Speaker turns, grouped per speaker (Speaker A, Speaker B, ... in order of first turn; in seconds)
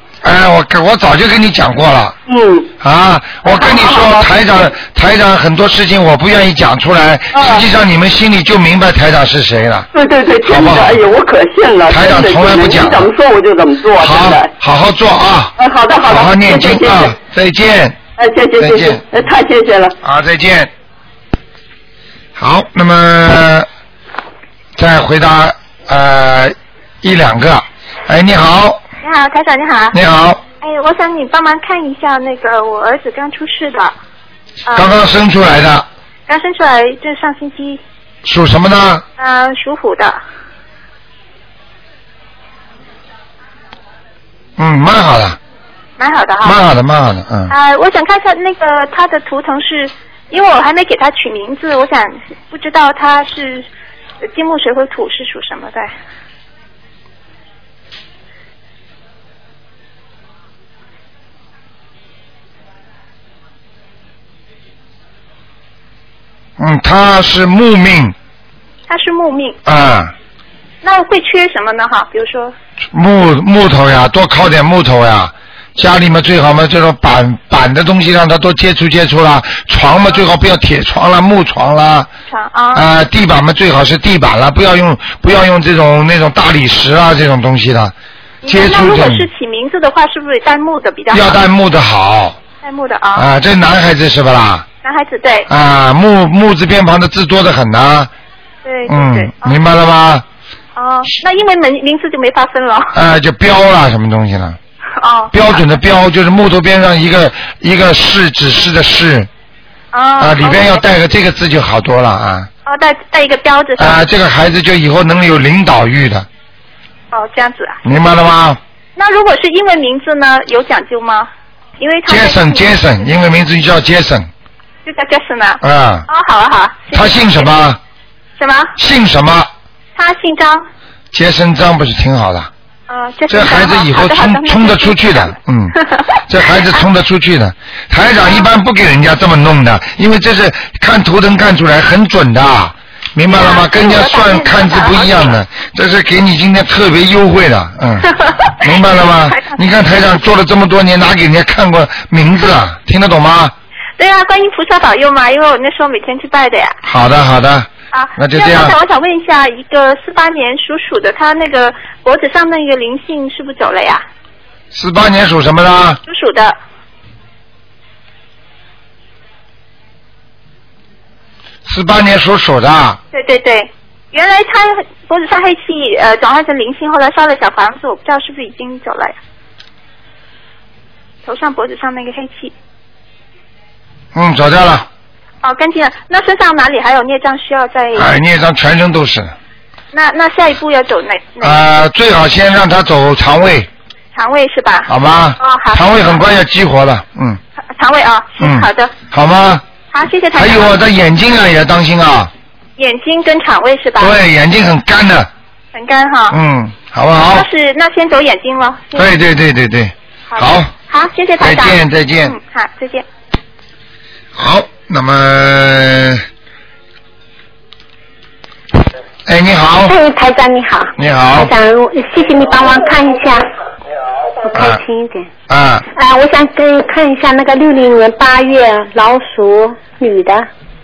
Speaker A: 0.2-2.1, 2.8-9.9, 10.4-11.0, 11.9-13.1, 14.0-15.5, 16.1-18.0, 18.6-19.0, 20.0-20.7, 22.4-23.7, 24.8-28.8, 29.9-30.4, 34.7-35.9, 38.2-39.0, 44.6-45.4, 46.4-47.5, 66.6-68.1, 69.7-70.1, 72.9-82.1, 82.7-89.3, 91.1-92.4, 93.1-94.7, 95.5-98.1, 98.9-100.2, 102.9-104.6, 105.3-109.3, 110.2-112.5, 113.8-116.3, 117.8-118.6, 122.1-124.3, 125.6-126.1, 126.9-127.8, 128.8-129.5, 131.1-132.5, 133.3-153.5, 156.8-158.8, 164.7-166.0, 171.7-173.0, 184.1-184.9, 187.9-189.3, 191.4-193.7, 194.9-197.4, 198.4-199.6, 200.3-202.3, 204.0-205.3, 206.3-207.5, 208.9-210.7, 211.4-212.4, 214.3-216.2, 219.2-219.9, 221.0-221.5, 224.5-224.8, 225.5-225.8
Speaker B: 2.3-2.7, 3.4-4.2, 7.3-7.6, 9.9-14.5, 15.6-17.1, 18.2-19.9
Speaker C: 29.0-29.9, 30.6-33.9, 34.7-35.0, 36.3-37.8, 39.2-40.2, 46.0-46.6, 47.5-53.7, 54.2-55.9, 68.9-69.6, 70.8-72.5, 82.3-82.8, 88.4-91.4, 92.6-93.3, 94.8-95.5, 98.6-99.6, 100.8-103.0, 105.0-105.6, 109.9-110.8, 112.7-114.0, 117.1-117.8, 119.0-122.8, 124.8-127.5, 128.4-128.7, 129.9-130.6, 132.9-136.8, 143.3-145.4, 148.2-149.6, 154.0-156.8, 157.9-164.0, 166.1-166.6, 173.1-179.2, 181.2-182.5, 185.4-188.1, 189.9-191.6, 194.1-196.2, 197.7-198.9, 199.9-200.8, 202.8-204.2, 205.7-206.4, 207.2-209.1, 210.3-213.0
Speaker D: 219.9-223.4, 224.4-225.3, 225.9-230.5